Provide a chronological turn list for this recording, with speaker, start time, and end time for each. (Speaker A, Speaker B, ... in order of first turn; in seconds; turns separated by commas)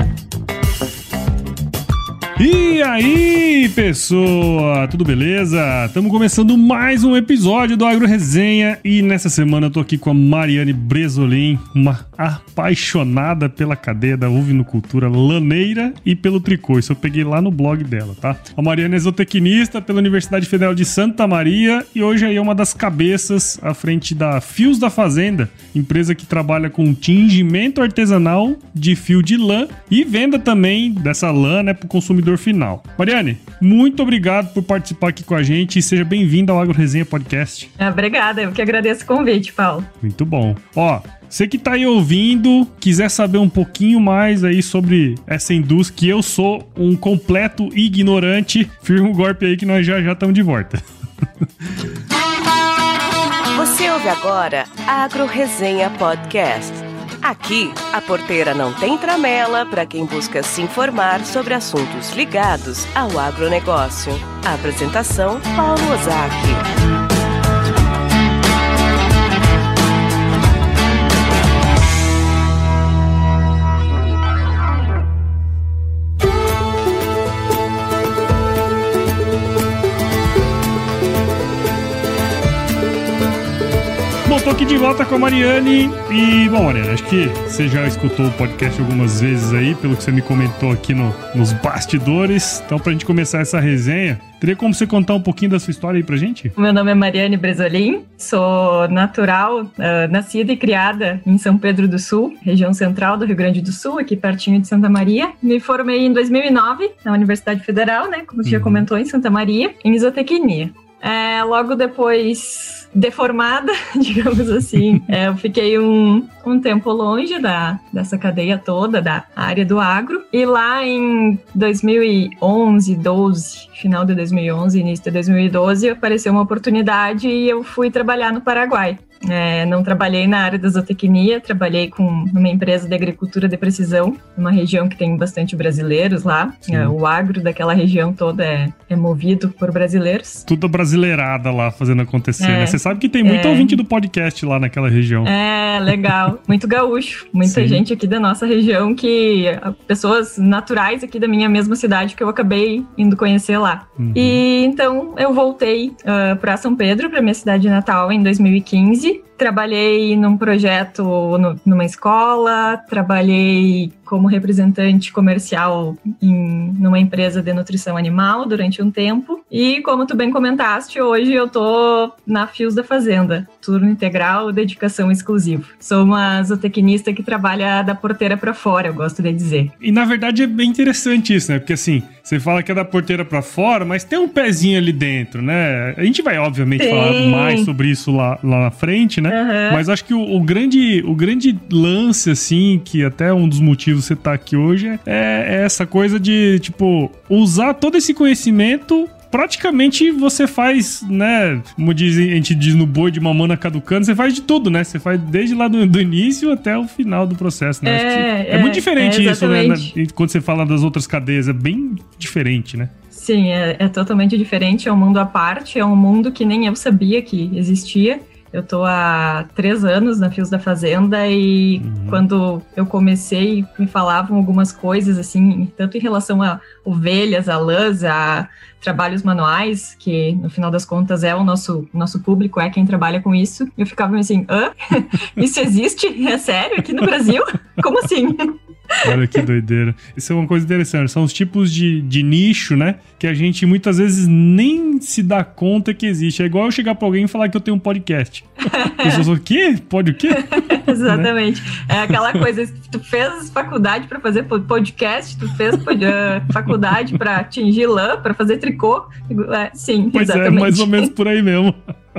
Speaker A: 2.4-37.7, Speaker B: 37.8-39.9, Speaker A: 40.0-50.8, Speaker C: 53.5-66.7, Speaker A: 84.2-96.5, Speaker B: 96.5-140.4, Speaker A: 108.4-108.8, Speaker A: 136.7-136.9, Speaker A: 140.4-145.3, Speaker B: 142.4-143.8, Speaker B: 145.2-179.7, Speaker A: 147.4-147.8, Speaker A: 154.0-154.4, Speaker A: 179.8-212.9, Speaker B: 186.8-187.7, Speaker B: 189.3-189.8, Speaker B: 207.8-209.9, Speaker B: 213.1-239.4, Speaker A: 221.8-222.2, Speaker A: 239.0-251.3, Speaker B: 248.7-249.3, Speaker B: 250.3-261.1, Speaker A: 260.1-261.8